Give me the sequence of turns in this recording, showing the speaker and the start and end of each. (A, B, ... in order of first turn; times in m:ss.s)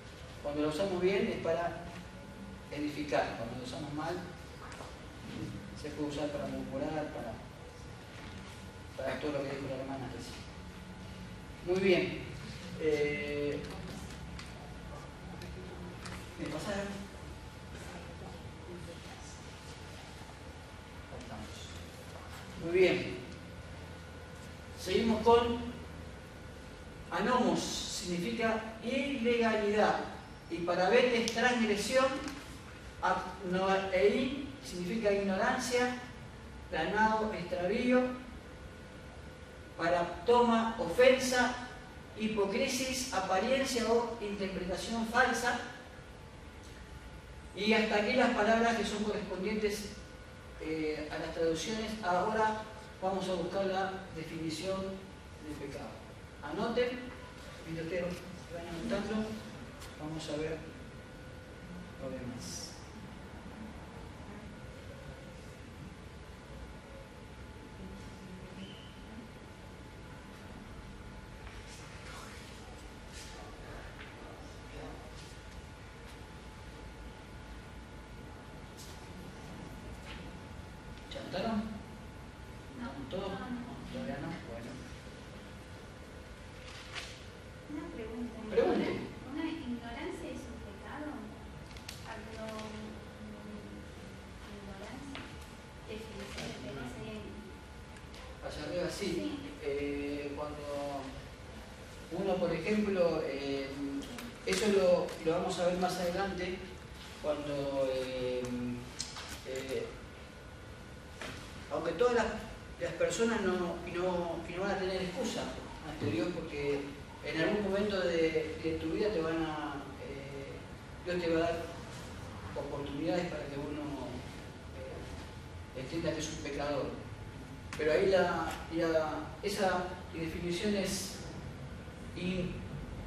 0:00.4-0:01.8 A
0:02.7-0:04.2 A
0:05.3-0:07.4 A
0:09.0-0:10.4 A
0:11.6-0:12.2 A
0:12.7-0:13.6 A
0:16.4-0:16.9 A
0:18.6-0:19.2 A
0:21.1-0:21.7 A
0:22.6-0:23.2 A
0:24.8-0:25.7 A
0:27.1-0:32.2 A
0:33.0-0:35.9 A
0:36.7-0:38.1 A
0:39.8-0:41.6 A
0:42.2-0:45.6 A
0:47.5-0:49.9 A
0:50.6-0:57.0 A
0:57.6-0:59.3 A
1:00.0-1:00.6 A
1:02.0-1:02.7 A
1:21.1-1:21.7 A
1:22.7-1:24.2 B
1:22.8-1:24.8 A
1:27.7-1:31.3 B
1:28.5-1:29.0 A
1:32.0-1:35.2 B
1:35.9-1:37.4 B
1:36.4-1:36.8 A
1:38.4-1:41.1 A
1:39.1-1:39.4 B
1:42.1-1:46.6 A
1:47.2-1:48.8 A
1:49.4-1:49.9 A
1:51.7-2:01.6 A
2:02.5-2:05.1 A
2:05.7-2:07.0 A
2:07.8-2:11.2 A
2:12.1-2:12.6 A